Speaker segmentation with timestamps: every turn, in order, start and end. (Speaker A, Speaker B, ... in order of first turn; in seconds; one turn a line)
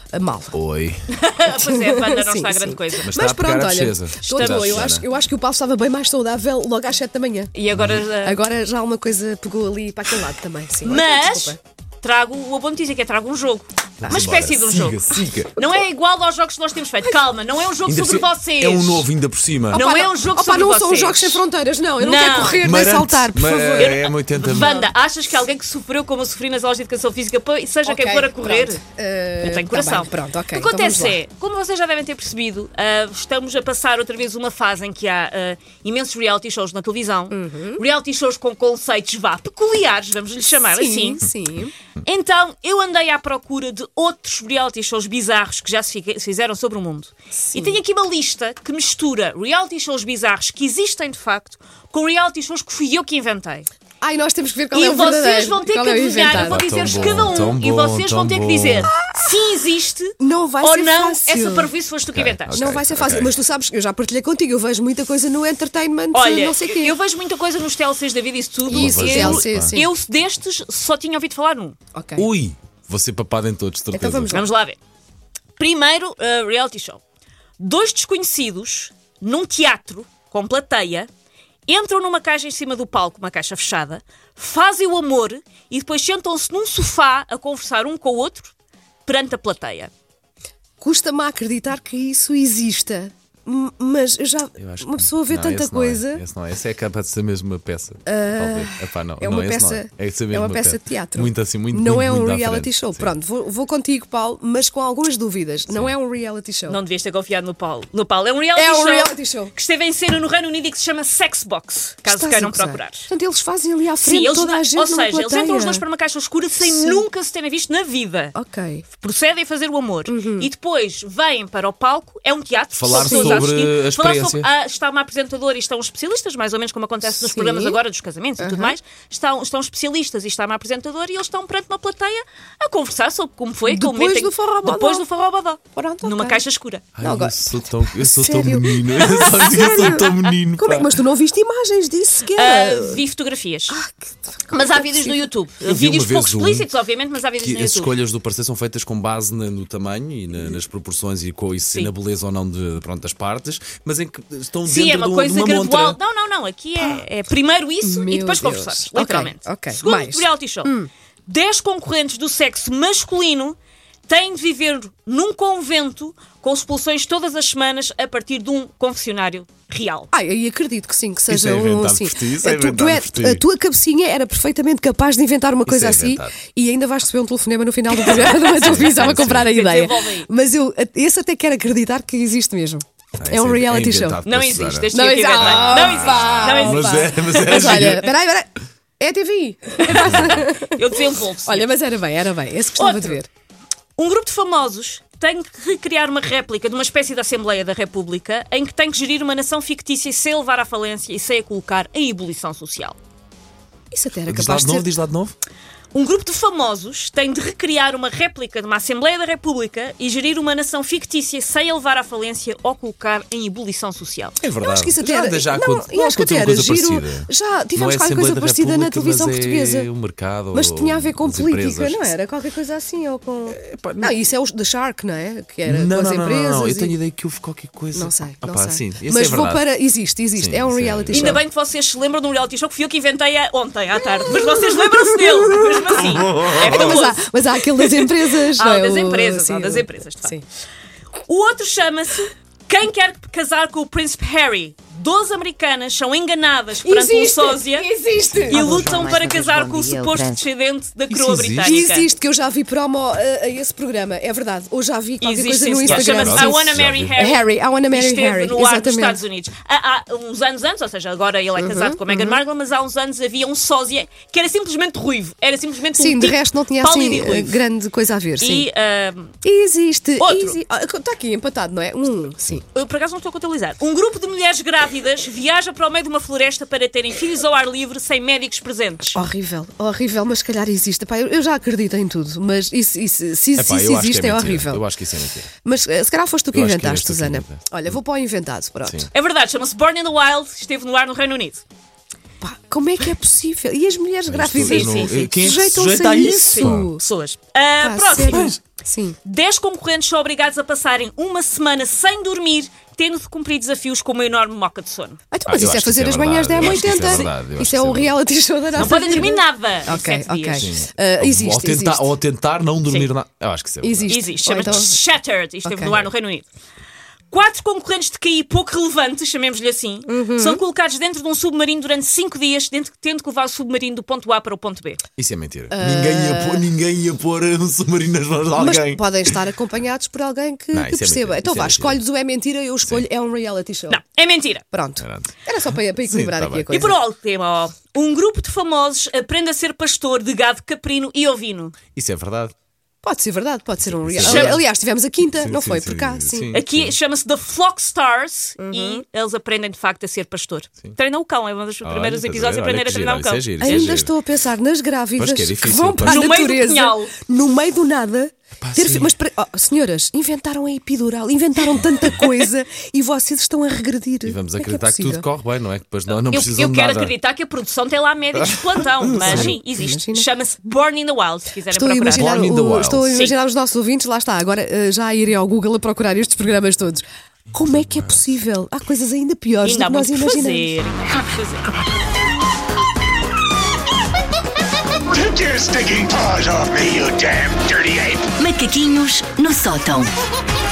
Speaker A: 0.1-0.6
Speaker B: 0.5-1.0
Speaker C: 1.1-3.1
Speaker A: 1.5-7.5
Speaker B: 3.0-5.1
Speaker C: 4.3-4.9
Speaker C: 7.5-8.4
Speaker A: 8.2-11.6
Speaker C: 10.8-19.1
Speaker B: 14.0-15.6
Speaker A: 14.1-14.3
Speaker B: 17.9-19.8
Speaker C: 19.7-21.4
Speaker A: 19.7-24.9
Speaker C: 22.0-22.6
Speaker B: 22.6-24.7
Speaker C: 23.8-28.8
Speaker A: 27.8-31.2
Speaker C: 29.4-41.2
Speaker A: 37.3-37.8
Speaker A: 40.5-41.7
Speaker C: 42.0-53.7
Speaker A: 47.4-47.8
Speaker A: 54.0-57.4
Speaker C: 54.7-62.7
Speaker B: 56.3-58.9
Speaker A: 60.2-61.7
Speaker B: 62.1-63.4
Speaker A: 62.5-67.0
Speaker C: 66.1-71.8
Speaker A: 68.7-69.9
Speaker B: 68.7-69.8
Speaker A: 71.9-72.3
Speaker B: 72.2-74.4
Speaker A: 73.9-74.5
Speaker C: 74.3-74.8
Speaker C: 75.6-77.0
Speaker C: 77.6-81.1
Speaker C: 81.7-88.5
Speaker C: 89.0-89.9
Speaker A: 90.8-96.2
Speaker B: 94.6-103.1
Speaker A: 98.1-106.8
Speaker C: 106.7-113.1
Speaker A: 108.5-109.5
Speaker A: 112.0-115.8
Speaker C: 114.0-118.3
Speaker A: 116.6-117.0
Speaker A: 118.3-118.8
Speaker C: 118.9-136.8
Speaker A: 120.1-120.5
Speaker B: 122.7-124.5
Speaker A: 122.9-123.4
Speaker A: 127.0-127.8
Speaker A: 128.4-128.7
Speaker A: 133.7-135.0
Speaker A: 135.7-136.4
Speaker B: 136.9-141.0
Speaker A: 137.0-143.0
Speaker C: 142.3-143.8
Speaker A: 143.7-145.2
Speaker C: 144.5-147.9
Speaker B: 145.6-146.7
Speaker B: 147.4-156.0
Speaker C: 154.6-160.7
Speaker A: 157.8-160.9
Speaker C: 161.3-163.6
Speaker C: 164.1-170.1
Speaker A: 170.1-184.2
Speaker B: 171.3-173.4
Speaker B: 175.7-176.3
Speaker B: 178.0-179.5
Speaker C: 178.0-180.3
Speaker B: 183.2-188.1
Speaker C: 184.2-187.0
Speaker A: 184.9-188.5
Speaker C: 187.5-187.9
Speaker A: 189.0-193.3
Speaker C: 189.8-191.7
Speaker B: 189.9-190.3
Speaker C: 192.8-193.2
Speaker C: 193.9-203.0
Speaker A: 203.9-204.9
Speaker B: 204.3-205.3
Speaker C: 205.9-214.3
Speaker B: 214.4-222.1
Speaker A: 214.6-219.9
Speaker A: 220.5-226.9
Speaker B: 223.5-224.1
Speaker B: 225.7-229.7
Speaker A: 227.9-231.4
Speaker B: 230.3-231.4
Speaker C: 231.1-240.4
Speaker A: 234.9-240.4
Speaker B: 236.0-236.9
Speaker C: 241.2-247.9
Speaker A: 246.8-248.9
Speaker D: 248.5-250.4
Speaker C: 248.5-252.1
Speaker B: 251.1-251.8
Speaker A: 251.6-259.2
Speaker C: 255.2-267.6
Speaker B: 255.9-257.1
Speaker A: 261.6-262.4
Speaker A: 265.9-268.7
Speaker C: 268.4-269.3
Speaker A: 269.4-272.6
Speaker C: 270.2-270.6
Speaker C: 272.7-279.2
Speaker A: 279.1-284.8
Speaker B: 283.6-285.5
Speaker A: 285.6-289.1
Speaker B: 286.5-288.0
Speaker B: 288.8-289.1
Speaker C: 289.1-291.6
Speaker A: 292.4-297.0
Speaker B: 294.3-296.9
Speaker C: 294.6-295.3
Speaker C: 296.2-298.5
Speaker A: 297.8-299.1
Speaker B: 298.2-298.6
Speaker C: 299.2-305.2
Speaker A: 305.3-312.1
Speaker B: 305.5-308.2
Speaker C: 306.6-307.2
Speaker C: 308.7-310.7
Speaker B: 310.6-314.7
Speaker A: 313.8-315.0
Speaker C: 314.1-316.4
Speaker A: 315.6-316.1
Speaker C: 317.3-325.0
Speaker A: 320.1-320.6
Speaker B: 325.2-329.4
Speaker A: 325.7-326.7
Speaker A: 328.6-334.0
Speaker B: 330.7-332.0
Speaker C: 333.9-334.6
Speaker A: 334.7-337.0
Speaker B: 335.0-336.7
Speaker C: 336.7-341.7
Speaker B: 341.9-342.5
Speaker A: 343.0-346.6
Speaker B: 343.8-344.6
Speaker C: 344.2-344.6
Speaker B: 345.3-346.9
Speaker C: 346.5-353.9
Speaker A: 348.6-349.0
Speaker B: 351.8-354.1
Speaker A: 353.6-365.2
Speaker B: 355.2-356.3
Speaker C: 356.0-357.1
Speaker B: 358.6-359.1
Speaker B: 364.2-367.1
Speaker C: 366.3-372.3
Speaker B: 368.4-369.6
Speaker A: 369.2-370.2
Speaker A: 371.7-380.7
Speaker B: 372.1-373.1
Speaker C: 373.1-373.4
Speaker C: 379.6-381.7
Speaker E: 385.1-388.3
Speaker D: 388.4-390.1